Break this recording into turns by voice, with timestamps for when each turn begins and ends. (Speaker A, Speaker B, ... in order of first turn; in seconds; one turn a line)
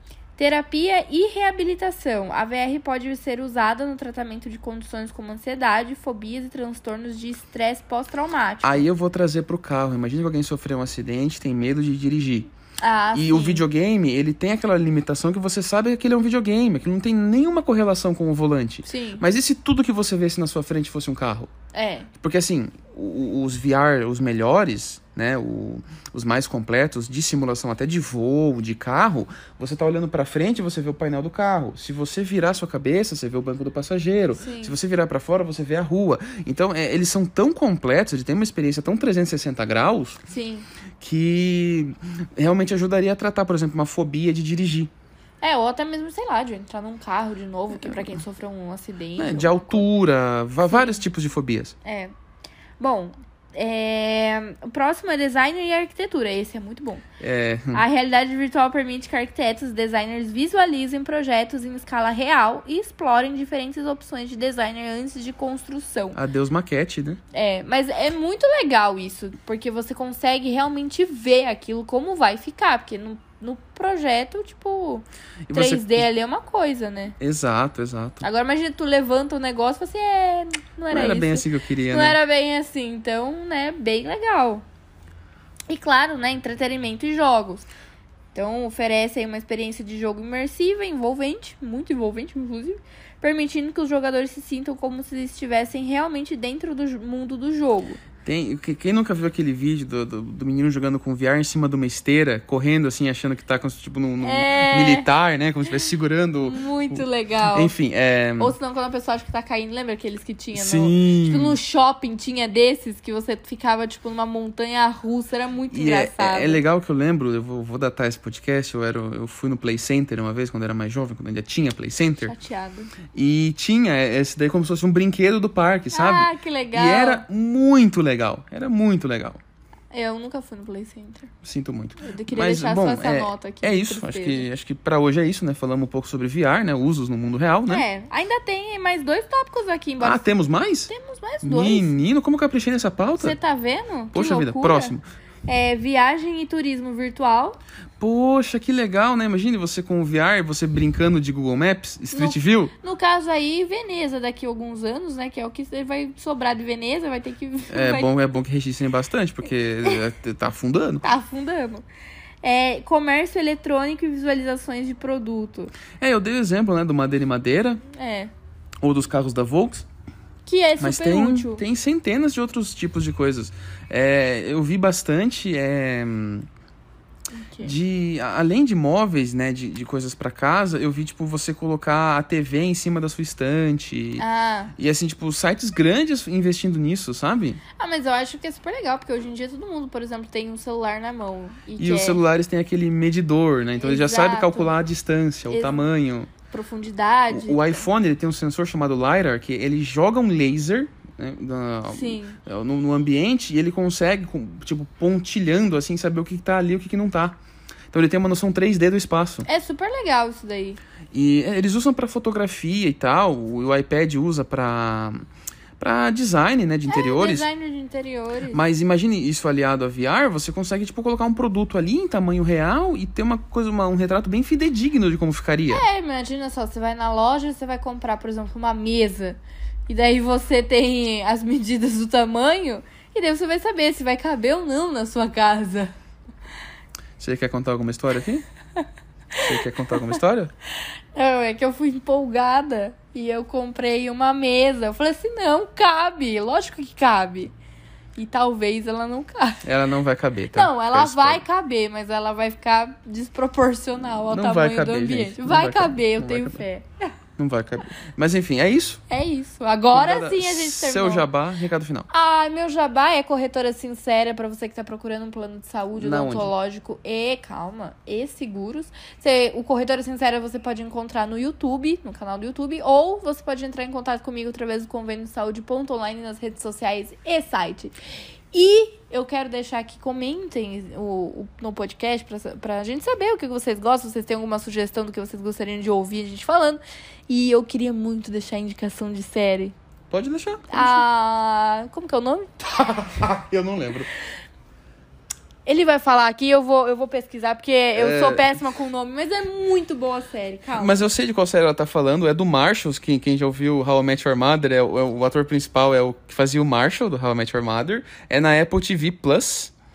Speaker A: 0.3-8.8
Speaker B: 8.6-12.5
Speaker A: 12.8-13.6
Speaker B: 13.1-21.5
Speaker A: 18.8-19.2
Speaker A: 21.7-22.1
Speaker B: 22.2-40.2
Speaker A: 34.3-34.7
Speaker A: 40.3-40.7
Speaker B: 41.0-44.9
Speaker A: 45.4-49.9
Speaker B: 47.7-48.2
Speaker B: 49.2-51.7
Speaker A: 50.6-51.0
Speaker A: 51.8-52.1
Speaker A: 52.8-57.0
Speaker B: 57.2-57.9
Speaker A: 57.7-66.2
Speaker B: 66.1-67.2
Speaker A: 67.3-77.1
Speaker B: 75.5-76.1
Speaker B: 77.2-78.2
Speaker A: 78.2-84.6
Speaker B: 80.9-82.2
Speaker A: 85.7-87.7
Speaker A: 88.3-98.0
Speaker B: 98.2-108.5
Speaker A: 104.2-105.1
Speaker A: 106.4-107.7
Speaker A: 108.4-116.6
Speaker B: 110.5-111.6
Speaker B: 115.7-122.3
Speaker A: 122.2-122.9
Speaker B: 123.1-129.4
Speaker A: 125.9-127.2
Speaker A: 129.9-131.3
Speaker B: 131.4-137.8
Speaker A: 132.0-134.4
Speaker A: 137.7-142.0
Speaker B: 140.0-140.9
Speaker B: 141.4-143.4
Speaker A: 143.2-144.9
Speaker B: 144.1-145.0
Speaker A: 145.4-147.6
Speaker B: 148.0-152.7
Speaker A: 152.1-158.1
Speaker B: 157.7-161.0
Speaker A: 161.0-161.8
Speaker A: 162.4-165.7
Speaker B: 166.0-167.8
Speaker A: 167.9-168.3
Speaker B: 168.8-169.8
Speaker A: 170.4-171.6
Speaker B: 170.8-176.5
Speaker A: 177.3-177.7
Speaker B: 177.6-184.2
Speaker A: 184.2-184.7
Speaker B: 184.8-187.6
Speaker A: 187.8-192.2
Speaker B: 191.8-196.3
Speaker A: 193.8-194.7
Speaker A: 195.5-195.9
Speaker A: 196.5-197.8
Speaker B: 197.3-207.4
Speaker A: 201.9-202.4
Speaker B: 207.9-209.5
Speaker A: 209.4-210.8
Speaker B: 211.1-215.2
Speaker B: 215.8-217.5
Speaker A: 216.9-218.6
Speaker B: 218.5-225.8
Speaker A: 225.7-235.9
Speaker B: 237.2-238.4
Speaker B: 239.3-240.5
Speaker A: 241.1-247.5
Speaker A: 248.2-249.6
Speaker B: 249.6-251.4
Speaker A: 250.5-257.0
Speaker B: 254.2-256.6
Speaker B: 257.4-259.0
Speaker A: 259.1-261.2
Speaker B: 259.9-262.1
Speaker A: 262.1-277.9
Speaker B: 266.0-266.5
Speaker A: 278.5-289.7
Speaker B: 290.1-291.0
Speaker A: 290.7-292.7
Speaker B: 292.6-294.1
Speaker A: 295.6-301.1
Speaker B: 297.9-298.6
Speaker B: 300.7-309.7